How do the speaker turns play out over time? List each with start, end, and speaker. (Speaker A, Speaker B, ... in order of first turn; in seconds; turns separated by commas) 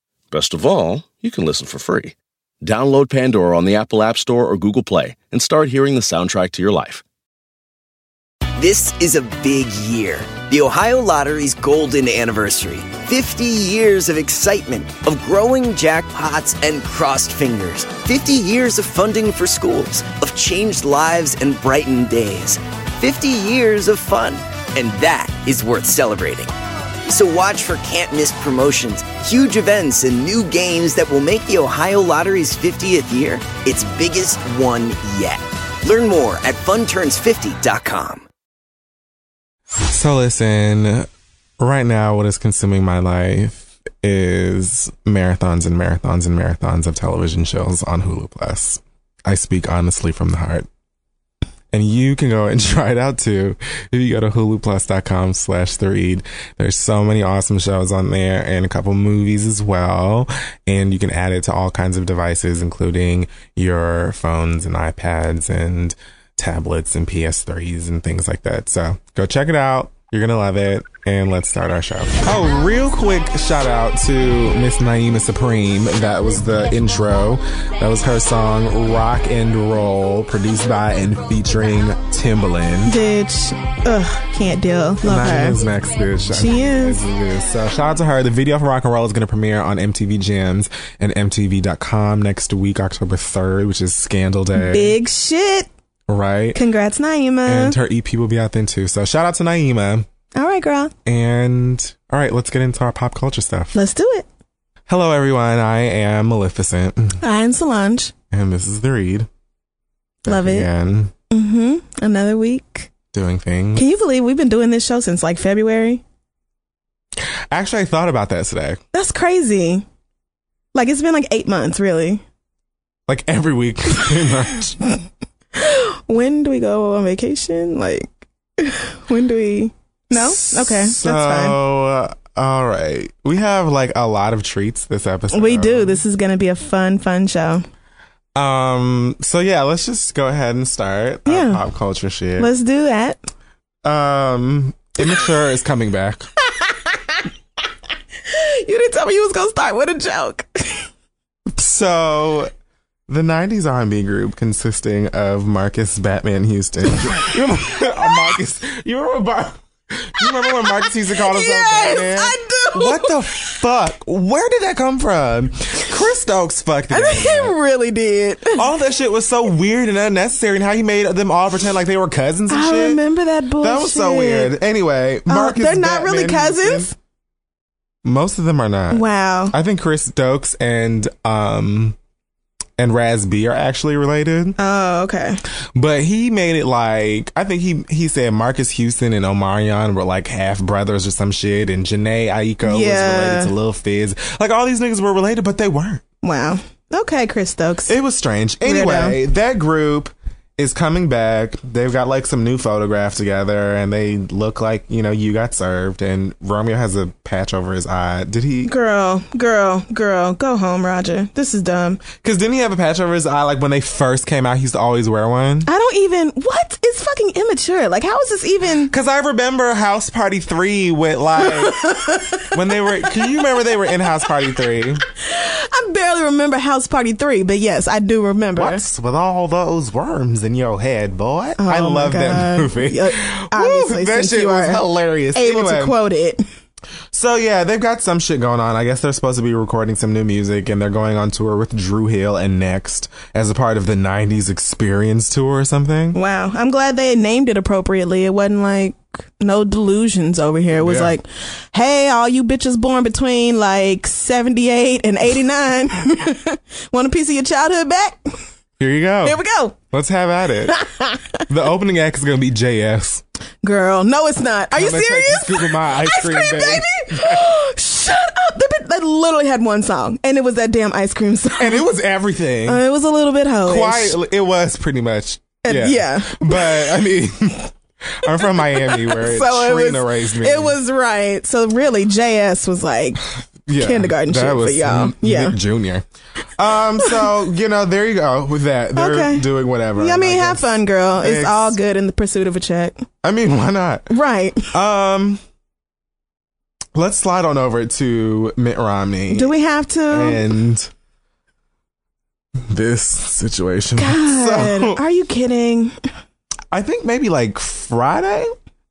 Speaker A: 0.3-7.0, Speaker B: 8.6-26.5, Speaker B: 27.1-38.2, Speaker C: 39.9-41.1, Speaker C: 41.6-50.7, Speaker C: 51.7-83.0, Speaker D: 82.8-85.6, Speaker C: 85.0-95.0, Speaker D: 86.3-87.0, Speaker D: 94.5-95.7, Speaker C: 96.1-96.6, Speaker D: 96.5-97.8, Speaker C: 97.5-100.1, Speaker D: 100.3-100.9, Speaker C: 101.1-103.8, Speaker D: 103.7-104.3, Speaker C: 104.9-107.2, Speaker D: 107.2-108.1, Speaker C: 108.3-109.3, Speaker D: 110.3-110.7, Speaker C: 110.3-111.1, Speaker D: 111.3-112.9, Speaker C: 113.1-113.9, Speaker D: 113.8-116.0, Speaker C: 117.5-118.8, Speaker D: 118.9-119.8, Speaker D: 120.7-122.2, Speaker C: 123.1-124.8, Speaker D: 125.6-131.6, Speaker C: 130.1-136.0, Speaker D: 135.3-137.7, Speaker C: 138.3-142.5, Speaker D: 141.3-141.6, Speaker D: 142.4-143.2, Speaker C: 143.8-146.3, Speaker D: 146.6-147.2, Speaker D: 148.3-150.9, Speaker C: 151.5-152.5, Speaker C: 153.1-167.5, Speaker D: 160.4-163.5, Speaker D: 166.9-168.6, Speaker C: 168.6-173.0, Speaker D: 172.5-174.5, Speaker C: 173.6-176.9, Speaker D: 175.3-176.9, Speaker C: 178.0-182.0, Speaker D: 178.9-179.5, Speaker C: 182.8-184.6, Speaker D: 184.6-185.4, Speaker C: 185.8-196.0, Speaker D: 192.7-193.5, Speaker D: 196.2-197.9, Speaker C: 197.9-208.7, Speaker D: 198.7-199.2, Speaker D: 208.7-212.0, Speaker C: 212.2-215.7, Speaker D: 215.7-218.9, Speaker C: 218.9-221.8, Speaker D: 221.4-222.5, Speaker C: 222.5-225.0, Speaker D: 225.2-228.8, Speaker C: 228.6-235.9, Speaker D: 231.6-234.8, Speaker D: 235.3-236.4, Speaker C: 237.1-246.2, Speaker D: 246.2-258.4, Speaker C: 250.8-251.2, Speaker C: 258.8-259.4, Speaker D: 259.2-259.8, Speaker C: 259.9-260.8, Speaker D: 260.8-261.2, Speaker C: 261.5-263.2, Speaker D: 263.6-271.9, Speaker C: 264.7-267.5, Speaker C: 271.6-272.8, Speaker D: 272.7-274.2, Speaker C: 273.7-280.8, Speaker D: 275.6-276.9, Speaker D: 278.8-283.2, Speaker C: 283.7-286.1, Speaker D: 283.8-285.6, Speaker C: 286.6-291.8, Speaker D: 289.0-293.1, Speaker C: 293.2-294.1, Speaker D: 294.1-294.7, Speaker C: 294.7-295.4, Speaker C: 296.9-299.5, Speaker D: 299.3-300.4, Speaker C: 300.1-300.9, Speaker C: 302.7-305.0, Speaker D: 304.0-306.0, Speaker C: 306.7-308.6